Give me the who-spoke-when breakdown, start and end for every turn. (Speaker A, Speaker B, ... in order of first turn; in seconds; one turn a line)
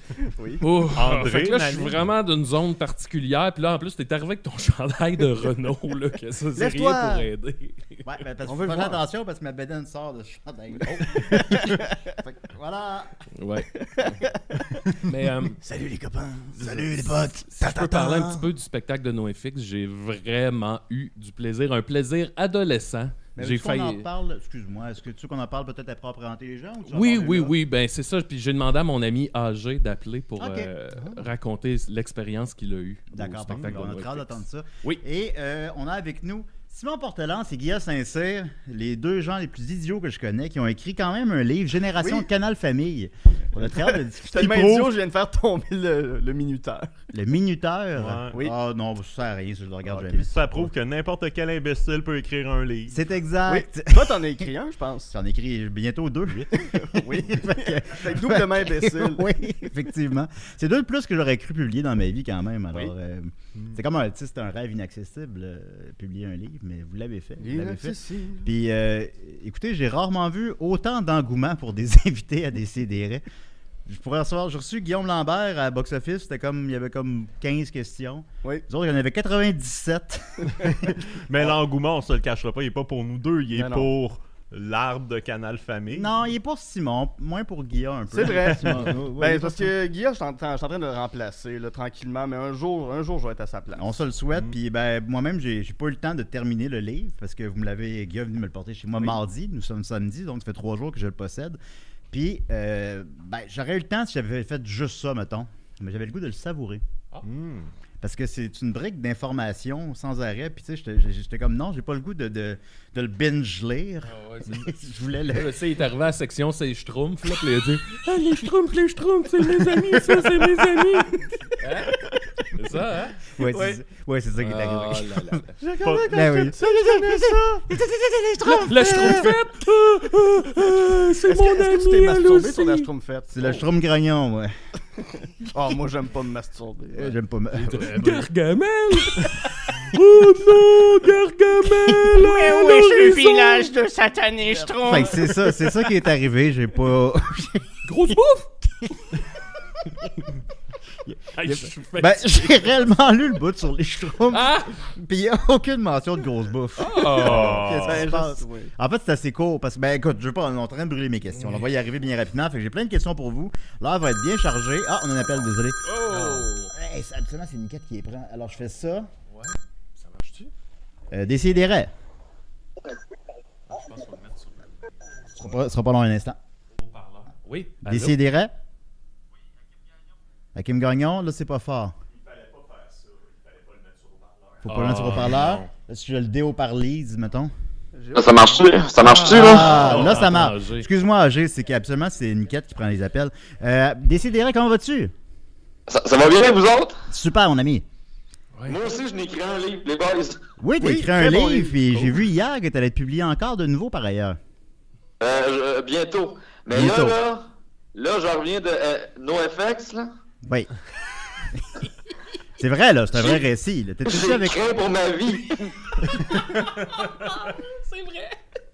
Speaker A: 0.2-0.6
Speaker B: 0.6-8.1
Speaker C: 0.9-2.0
Speaker A: 6.6-7.3
Speaker D: 8.1-13.1
Speaker A: 8.5-9.0
Speaker A: 11.1-11.9
Speaker B: 13.3-14.2
Speaker A: 13.8-14.8
Speaker B: 15.0-15.6
Speaker A: 15.6-18.3
Speaker D: 16.6-18.3
Speaker B: 17.5-24.1
Speaker D: 23.4-27.5
Speaker B: 26.9-35.0
Speaker D: 30.4-30.7
Speaker D: 33.1-45.0
Speaker C: 33.5-33.8
Speaker A: 42.0-42.3
Speaker A: 43.5-46.9
Speaker D: 47.1-50.7
Speaker C: 48.0-48.4
Speaker A: 49.9-50.3
Speaker C: 50.2-53.0
Speaker D: 52.9-54.3
Speaker A: 53.5-55.1
Speaker D: 55.1-73.2
Speaker A: 56.6-59.3
Speaker C: 63.5-63.8
Speaker A: 67.4-68.5
Speaker D: 73.9-80.9
Speaker C: 80.6-86.1
Speaker A: 83.5-83.9
Speaker D: 85.9-89.7
Speaker A: 88.1-93.9
Speaker D: 93.8-101.6
Speaker D: 102.1-106.8
Speaker C: 107.2-107.7
Speaker D: 108.0-115.6
Speaker B: 114.1-114.7
Speaker B: 115.3-122.0
Speaker D: 119.5-120.1
Speaker B: 122.5-123.3
Speaker D: 123.3-129.3
Speaker A: 123.4-123.8
Speaker B: 124.4-125.6
Speaker A: 125.6-127.7
Speaker C: 125.8-126.2
Speaker B: 128.6-132.9
Speaker A: 131.1-133.6
Speaker D: 133.3-134.6
Speaker A: 135.5-137.1
Speaker D: 136.9-138.3
Speaker B: 137.5-143.7
Speaker D: 141.7-143.2
Speaker A: 142.1-145.5
Speaker D: 144.7-148.1
Speaker B: 147.8-148.6
Speaker D: 148.8-149.2
Speaker B: 151.2-152.7
Speaker D: 151.4-169.1
Speaker B: 154.3-154.8
Speaker B: 156.8-157.7
Speaker C: 157.2-158.1
Speaker A: 157.8-158.7
Speaker B: 165.8-166.7
Speaker B: 169.3-170.5
Speaker D: 171.1-171.9
Speaker B: 173.7-174.7
Speaker D: 175.3-176.4
Speaker B: 176.8-178.2
Speaker D: 177.8-178.5
Speaker D: 180.6-181.9
Speaker D: 184.6-187.5
Speaker B: 184.7-185.4
Speaker C: 185.2-185.7
Speaker A: 187.9-188.6
Speaker E: 188.1-189.9
Speaker B: 189.0-190.9
Speaker D: 189.2-195.1
Speaker E: 195.9-197.0
Speaker D: 197.1-197.8
Speaker E: 198.7-200.4
Speaker D: 200.6-204.4
Speaker A: 200.8-202.1
Speaker E: 205.2-210.1
Speaker D: 206.7-207.2
Speaker D: 210.5-210.7
Speaker D: 212.6-214.7
Speaker E: 213.2-213.4
Speaker E: 214.1-216.3
Speaker B: 216.6-218.4